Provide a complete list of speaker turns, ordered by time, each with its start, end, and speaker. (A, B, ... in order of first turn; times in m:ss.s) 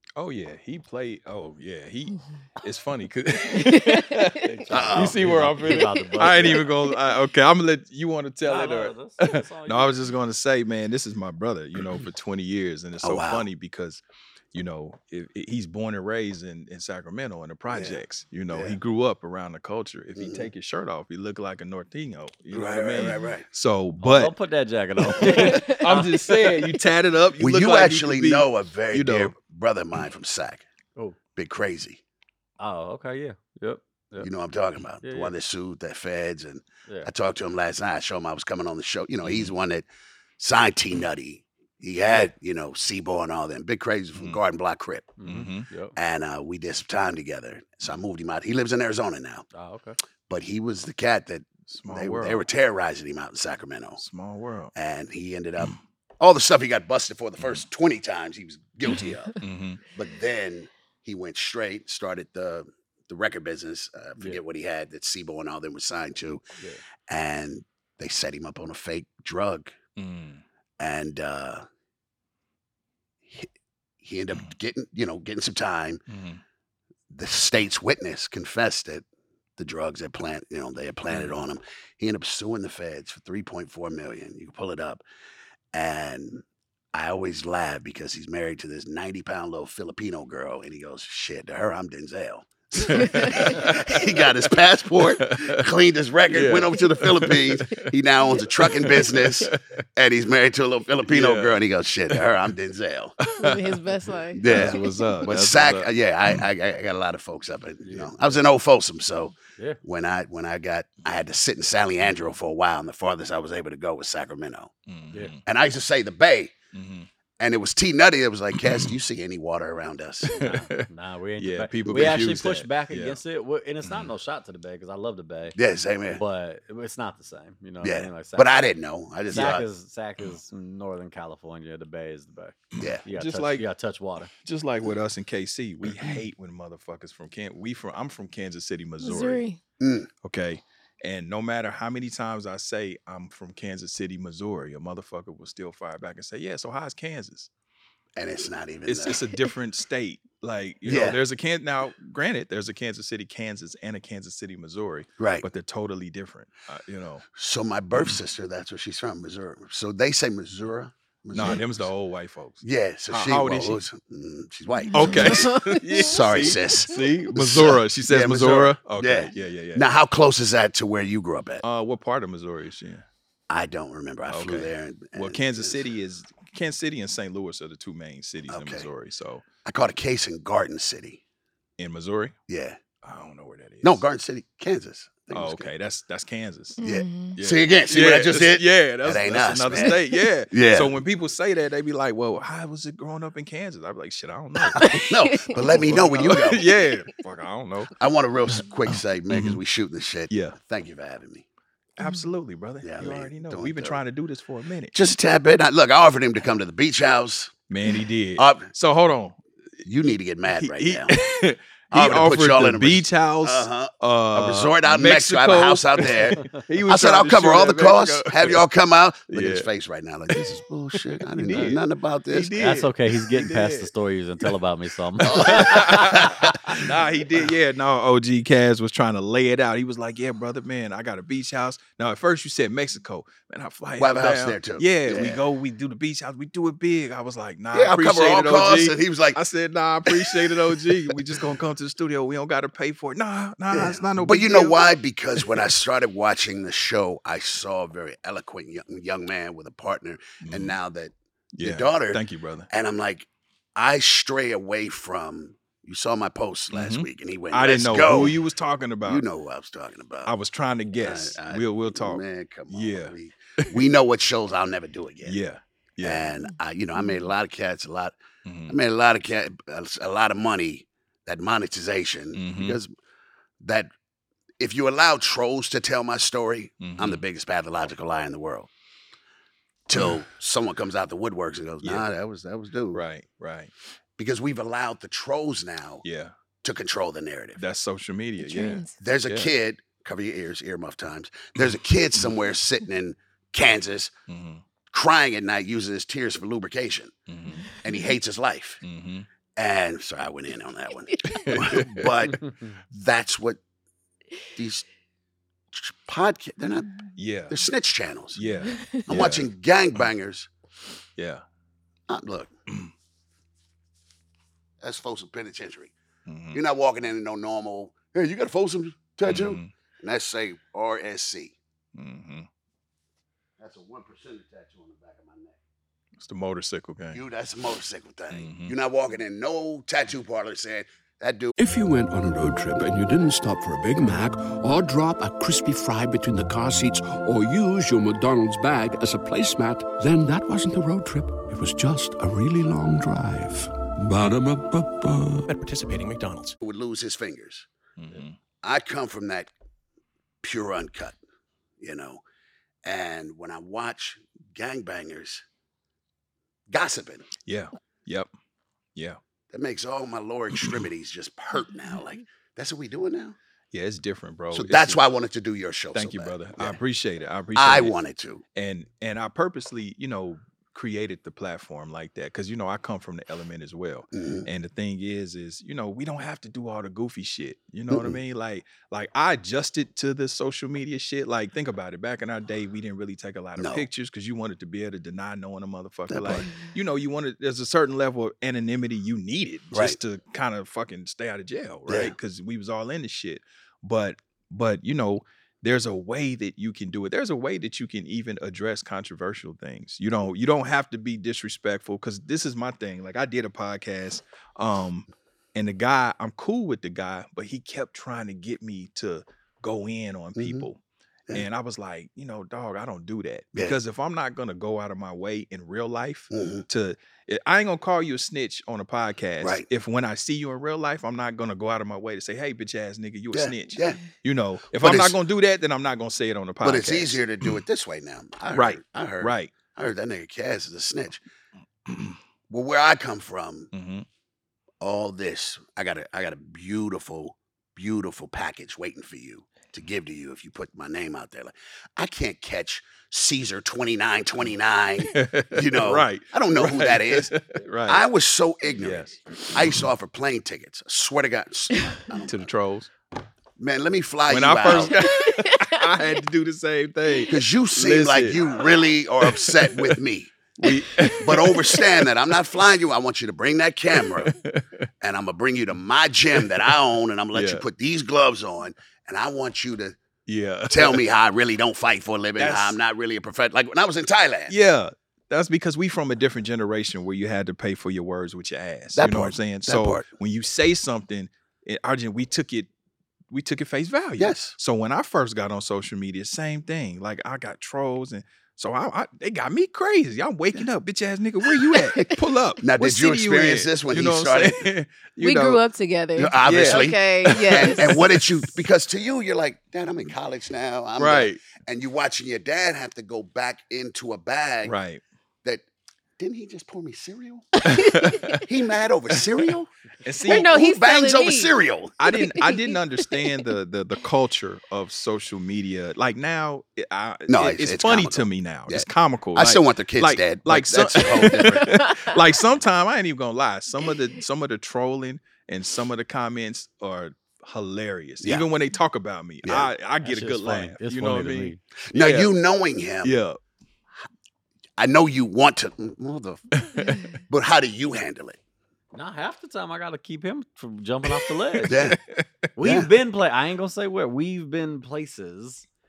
0:00.2-0:14.0 A
0:03.6-0:04.4 B
0:04.7-0:06.7 C
0:04.7-0:05.2 D
0:08.4-0:10.0 C
0:13.0-0:13.5 D
0:14.5-0:24.3 A
0:17.7-0:18.0 D
0:18.5-0:18.8 D
0:20.2-0:20.5 D
0:22.5-0:23.5 D
0:24.0-0:26.7 C
0:25.0-0:29.3 A
0:27.4-0:30.6 D
0:31.4-0:32.0 D
0:32.6-0:34.3 C
0:34.2-0:39.9 D
0:35.0-0:35.3 C
0:39.2-0:39.5 A
0:40.4-0:45.1 D
0:44.2-0:44.4 A
0:45.2-0:46.0 C
0:45.2-0:45.7 A
0:46.0-0:49.5 D
0:49.5-0:50.0 C
0:50.3-0:54.0 D
0:51.7-0:52.4 A
0:54.0-0:54.7 A
0:54.8-0:59.4 D
0:57.4-0:57.6 A
0:58.9-0:59.8 A
0:59.9-1:06.4 D
1:07.1-1:09.8 D
1:10.0-1:10.4 A
1:10.8-1:11.6 D
1:14.0-1:16.0 D
1:16.1-1:16.4 A
1:17.1-1:19.0 D
1:19.6-1:25.0 D
1:21.1-1:21.4 A
1:25.7-1:43.3 D
1:32.9-1:34.0 A
1:35.0-1:35.5 A
1:36.3-1:39.6 A
1:41.1-1:41.6 A
1:43.3-1:44.5 B
1:43.4-1:43.8 A
1:44.4-1:54.7 D
1:44.4-1:46.4 A
1:47.9-1:48.4 C
1:54.9-1:55.4 A
1:55.5-1:56.5 D
1:56.7-1:57.1 A
1:57.4-2:00.4 D
1:58.5-1:58.9 A
2:00.3-2:00.9 A
2:00.4-2:05.6 C
2:01.4-2:03.2 A
2:03.8-2:04.1 A
2:05.6-2:06.2 D
2:06.1-2:08.5 C
2:07.8-2:09.7 D
2:09.3-2:14.3 C
2:09.3-2:09.6 A
2:12.8-2:13.0 D
2:12.8-2:13.6 A
2:14.4-2:19.4 A
2:19.0-2:19.6 B
2:19.8-2:20.1 D
2:20.2-2:27.5 A
2:28.2-2:29.2 D
2:28.9-2:37.3 A
2:30.9-2:31.2 D
2:35.2-2:35.4 D
2:37.4-2:41.9 D
2:41.3-2:43.8 A
2:42.6-2:51.6 D
2:44.9-2:49.8 A
2:45.0-2:45.8 B
2:51.6-2:53.1 A
2:53.5-2:55.8 D
2:54.3-2:59.4 A
2:58.5-2:58.9 D
2:59.6-3:01.2 D
3:01.8-3:02.4 A
3:02.5-3:02.8 D
3:03.0-3:04.0 A
3:03.8-3:05.7 D
3:05.3-3:06.8 A
3:06.8-3:07.4 B
3:06.8-3:10.0 D
3:07.4-3:17.9 A
3:10.5-3:11.0 D
3:14.8-3:15.6 B
3:15.1-3:16.7 D
3:18.0-3:21.4 D
3:18.9-3:19.6 A
3:20.3-3:20.6 A
3:22.0-3:25.0 A
3:22.0-3:22.3 B
3:22.8-3:24.0 D
3:24.9-3:27.6 D
3:27.7-3:29.4 A
3:28.4-3:28.7 D
3:29.8-3:31.1 D
3:30.6-3:38.6 A
3:31.9-3:42.7 D
3:39.3-3:39.7 A
3:41.1-3:43.9 A
3:41.5-3:41.8 C
3:42.6-3:46.2 C
3:45.2-4:05.7 A
3:45.2-3:46.9 D
3:54.0-3:55.4 D
3:57.7-3:59.4 D
4:00.1-4:01.2 D
4:03.7-4:18.4 D
4:10.4-4:10.8 A
4:11.6-4:12.7 A
4:16.7-4:19.2 A
4:19.0-4:20.3 D
4:20.2-4:23.9 A
4:21.0-4:25.4 D
4:25.2-4:26.4 A
4:26.0-4:28.2 D
4:28.5-4:28.8 A
4:28.7-4:32.9 D
4:32.4-4:32.8 A
4:33.6-4:33.9 D
4:34.6-4:38.7 D
4:36.8-4:37.2 A
4:39.9-4:43.0 D
4:41.8-4:42.1 A
4:42.9-4:43.7 A
4:44.2-4:46.0 D
4:46.0-4:46.3 A
4:46.6-4:47.6 D
4:47.6-4:49.6 A
4:48.4-4:49.0 B
4:49.0-4:54.1 D
4:51.6-4:52.4 A
4:54.3-4:54.6 A
4:54.9-4:57.1 D
4:57.3-4:57.7 A
4:57.8-4:58.8 D
4:58.8-4:59.3 A
4:59.6-5:03.6 D
5:01.3-5:02.1 A
5:04.6-5:04.9 D
5:05.7-5:08.4 D
5:07.2-5:07.6 A
5:08.4-5:10.1 A
5:09.1-5:10.5 D
5:11.2-5:11.4 A
5:12.1-5:12.5 D
5:14.8-5:15.9 D
5:16.3-5:16.6 A
5:16.5-5:21.6 D
5:19.3-5:19.7 A
5:22.0-5:22.5 A
5:23.6-5:25.6 D
5:26.2-5:27.2 A
5:27.1-5:31.5 D
5:28.3-5:28.7 A
5:31.6-5:46.6 E
5:46.6-5:47.7 D
5:48.0-5:48.4 A
5:48.6-5:49.5 D
5:50.4-5:51.2 D
5:51.8-5:52.2 D
5:52.8-5:55.4 D
5:56.7-5:57.3 D
5:57.4-5:58.3 A
5:59.5-6:03.4 D
6:03.7-6:05.0 A
6:04.5-6:06.8 D
6:05.9-6:07.9 A
6:07.6-6:08.4 D
6:08.6-6:50.8 A
6:14.1-6:14.5 D
6:17.9-6:18.2 D
6:23.6-6:23.9 D
6:26.1-6:26.5 D
6:31.9-6:32.2 D
6:50.4-6:50.6 D
6:51.3-7:07.6 A
6:56.3-6:56.6 D
7:03.3-7:04.0 D
7:04.8-7:05.2 D
7:06.6-7:11.2 D
7:08.5-7:09.5 A
7:12.5-7:13.7 D
7:13.7-7:14.1 A
7:14.8-7:27.3 D
7:25.1-7:28.0 A
7:27.9-7:32.5 D
7:28.8-7:29.9 A
7:32.2-7:32.9 A
7:33.6-7:35.0 D
7:34.3-7:38.6 A
7:35.4-7:35.7 B
7:37.3-7:40.4 D
7:39.2-7:40.0 A
7:40.6-7:42.1 A
7:41.1-7:44.4 D
7:44.2-7:44.9 A
7:45.0-7:50.0 D
7:47.3-7:47.6 A
7:50.3-7:51.0 A
7:50.7-7:54.5 D
7:52.4-7:52.8 A
7:54.5-8:02.7 A
7:59.0-8:00.0 D
8:03.3-8:15.6 A
8:04.2-8:04.6 D
8:11.7-8:12.0 D
8:12.6-8:14.7 D
8:15.2-8:18.3 B
8:16.2-8:24.8 D
8:16.4-8:18.3 A
8:21.0-8:21.4 A
8:24.6-8:25.0 A
8:26.2-8:27.7 D
8:27.7-8:28.4 A
8:28.0-8:28.4 B
8:28.4-8:29.7 D
8:30.0-8:30.5 A
8:30.2-8:31.5 B
8:30.3-8:32.0 D
8:32.0-8:52.3 A
8:32.2-8:32.6 B
8:37.3-8:41.9 D
8:50.0-8:51.6 C
8:51.9-8:53.2 D
8:53.0-8:53.4 A
8:54.8-8:58.4 D
8:56.6-8:57.0 A
8:58.9-9:01.9 C
9:01.6-9:02.3 A
9:01.7-9:02.0 D
9:02.6-9:05.7 C
9:02.6-9:02.9 D